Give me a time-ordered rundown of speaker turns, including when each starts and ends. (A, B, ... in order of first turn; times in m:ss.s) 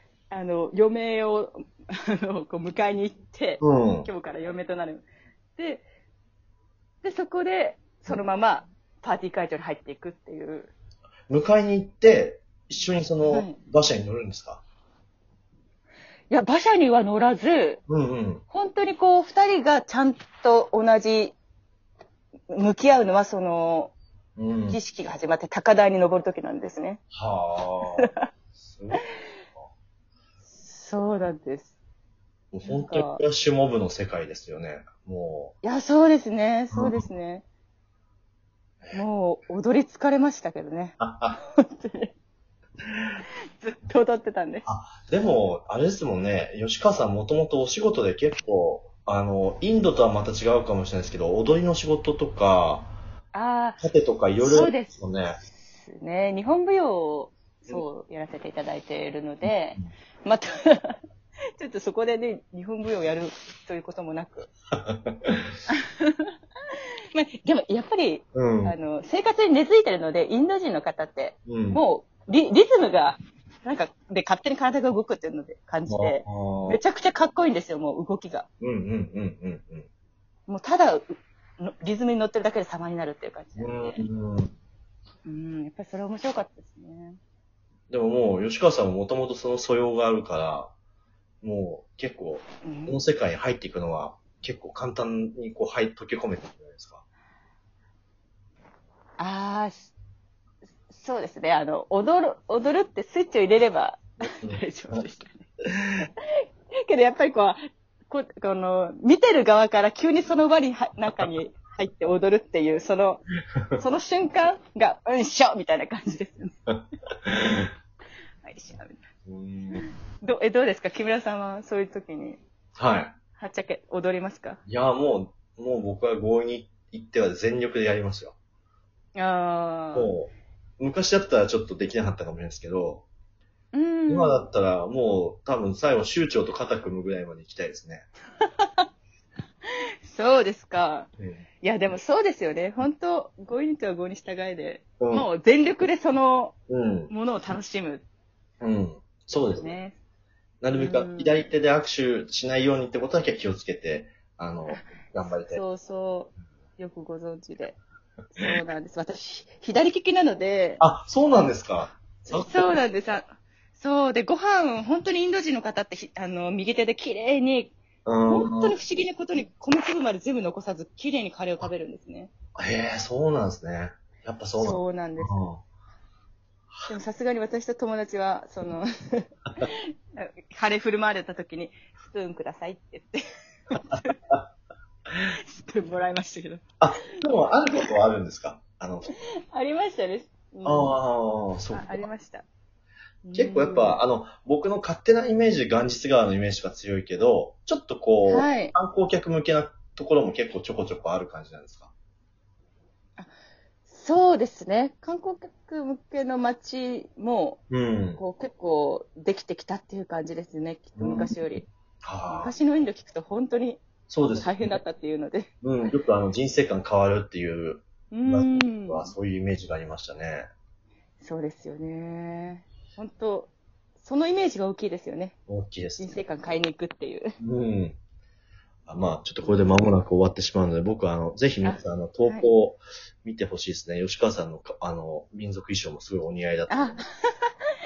0:00.3-0:05.0 A
0:03.6-0:04.1 B
0:05.6-0:05.8 A
0:07.0-0:10.7 A
0:11.3-0:14.6 B
0:13.2-0:13.6 A
0:16.3-0:17.8 A
0:17.9-0:18.4 B
0:18.5-0:21.3 A
0:22.5-0:23.9 A
0:24.4-0:24.8 B
0:24.7-0:27.0 A
0:27.1-0:29.0 B
0:28.0-0:28.3 A
0:30.5-0:31.7 A
0:32.5-0:35.5 B
0:32.6-0:33.2 A
0:35.6-0:37.4 A
0:36.7-0:37.0 B
0:38.9-0:41.0 A
0:41.0-0:41.4 B
0:41.6-0:42.1 A
0:43.6-0:44.6 A
0:44.6-0:52.9 B
0:53.3-0:53.8 A
0:53.8-0:55.3 B
0:54.4-0:55.0 A
0:55.7-1:01.0 A
0:59.4-0:59.9 B
1:01.6-1:04.5 A
1:04.7-1:05.5 B
1:05.7-1:06.3 A
1:07.1-1:18.4 A
1:08.3-1:08.8 B
1:11.5-1:11.8 B
1:15.9-1:16.8 B
1:18.6-1:19.9 B
1:20.5-1:24.0 A
1:23.6-1:24.5 B
1:25.2-1:27.2 A
1:27.9-1:30.7 B
1:31.4-1:37.0 B
1:32.6-1:33.0 A
1:39.2-1:39.9 A
1:40.9-1:53.2 A
1:44.4-1:45.0 B
1:53.8-1:56.5 A
1:57.2-1:57.7 B
1:58.4-1:59.0 A
1:59.2-1:59.8 B
1:59.7-2:02.4 A
2:02.8-2:03.1 B
2:03.4-2:04.6 A
2:04.7-2:08.4 B
2:09.1-2:10.1 A
2:09.9-2:13.0 B
2:13.7-2:14.4 A
2:14.1-2:18.0 B
2:18.4-2:18.8 A
2:20.1-2:21.1 A
2:21.6-2:26.5 A
2:25.0-2:25.3 B
2:26.7-2:27.1 B
2:27.1-2:28.0 A
2:28.6-2:29.7 B
2:29.4-2:30.0 A
2:30.6-2:35.6 B
2:30.7-2:31.5 A
2:35.4-2:37.8 A
2:38.3-2:40.8 A
2:40.8-2:42.8 B
2:42.2-2:47.8 A
2:48.0-2:48.8 B
2:48.3-2:52.3 A
2:52.6-2:55.6 B
2:54.6-2:55.4 A
2:56.9-3:04.1 A
3:03.8-3:04.4 B
3:05.5-3:06.6 A
3:06.8-3:09.1 B
3:07.1-3:07.9 A
3:09.5-3:11.0 A
3:10.6-3:12.1 B
3:11.7-3:12.4 A
3:13.2-3:14.0 A
3:13.3-3:21.9 B
3:18.2-3:18.7 A
3:23.9-3:27.6 A
3:27.7-3:28.2 B
3:28.2-3:31.6 A
3:31.0-3:32.5 B
3:32.3-3:35.5 A
3:34.1-3:34.8 B
3:35.6-3:40.4 B
3:38.1-3:39.1 A
3:41.2-3:45.4 A
3:45.5-3:46.2 B
3:46.0-3:47.3 A
3:47.4-3:48.0 B
3:48.9-3:57.0 B
3:51.6-3:52.5 A
3:56.7-3:57.5 A